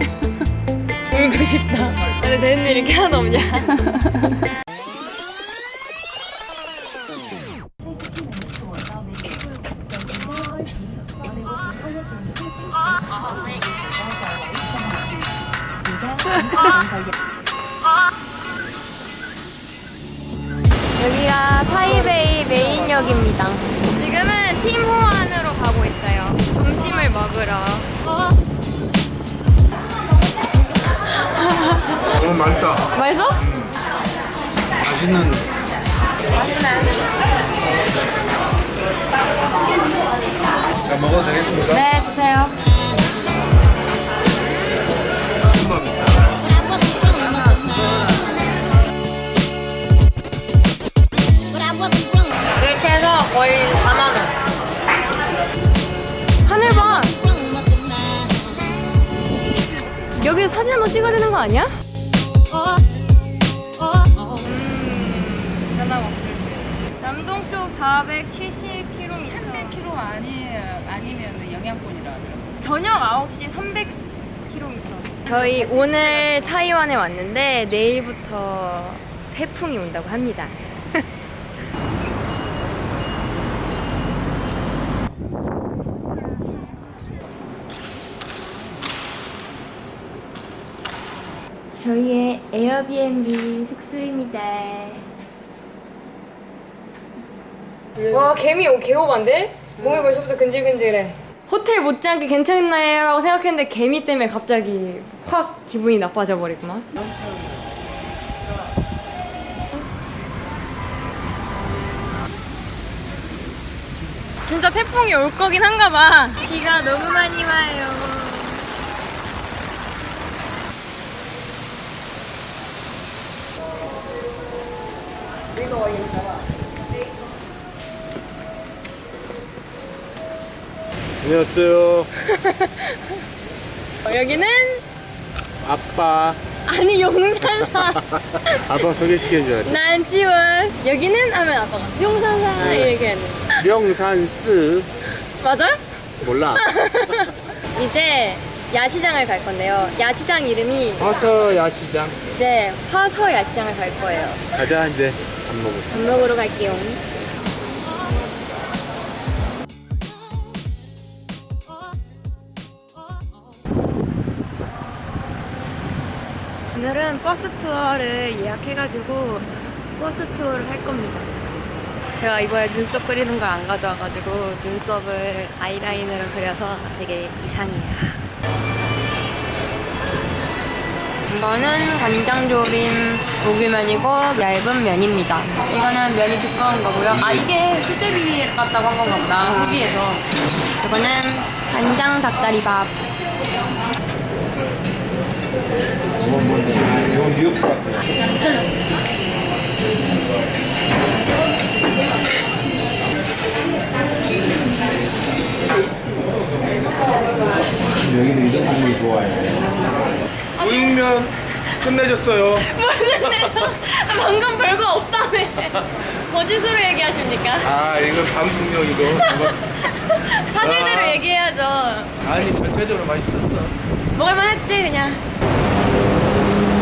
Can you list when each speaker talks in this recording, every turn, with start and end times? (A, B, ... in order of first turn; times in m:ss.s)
0:01.1-0:03.8 A
0:15.8-0:17.0 A
0:21.0-0:28.0 A
0:31.3-0:32.1 A
0:32.1-0:32.9 B
0:32.9-0:33.4 A
0:34.8-0:35.4 B
0:36.4-0:36.9 A
0:40.8-0:41.8 B
0:41.7-0:42.6 A
0:45.6-0:46.0 B
0:52.6-0:54.3 A
0:56.4-0:57.2 A
1:00.2-1:01.7 A
1:04.2-1:09.8 A
1:09.5-1:12.5 C
1:12.6-1:21.0 A
1:15.4-1:16.4 C
1:31.8-1:35.0 A
1:38.0-1:46.9 A
1:54.4-1:58.7 A
2:11.2-2:12.1 B
2:12.2-2:13.1 A
2:14.0-2:14.8 A
2:15.6-2:16.4 B
2:16.6-2:18.9 A
2:18.6-2:19.7 B
2:19.6-2:23.7 A
2:22.6-2:22.9 B
2:23.6-2:24.9 B
2:25.3-2:31.1 A
2:26.2-2:26.6 B
2:31.0-2:32.2 B
2:32.3-2:34.4 A
2:34.5-2:35.9 B
2:35.9-2:37.0 A
2:46.8-2:51.3 A
2:52.1-2:58.2 A
3:01.3-3:10.2 A
3:09.4-3:09.8 C
3:10.8-3:13.0 A
3:16.2-3:18.0 B
3:28.0-3:29.6 B
3:30.6-3:31.0 A
3:30.6-3:32.7 B
3:32.6-3:37.7 A
3:37.6-3:39.6 B
3:39.1-3:42.1 A
3:40.6-3:41.2 B
3:42.2-3:43.7 B
3:44.1-3:45.2 A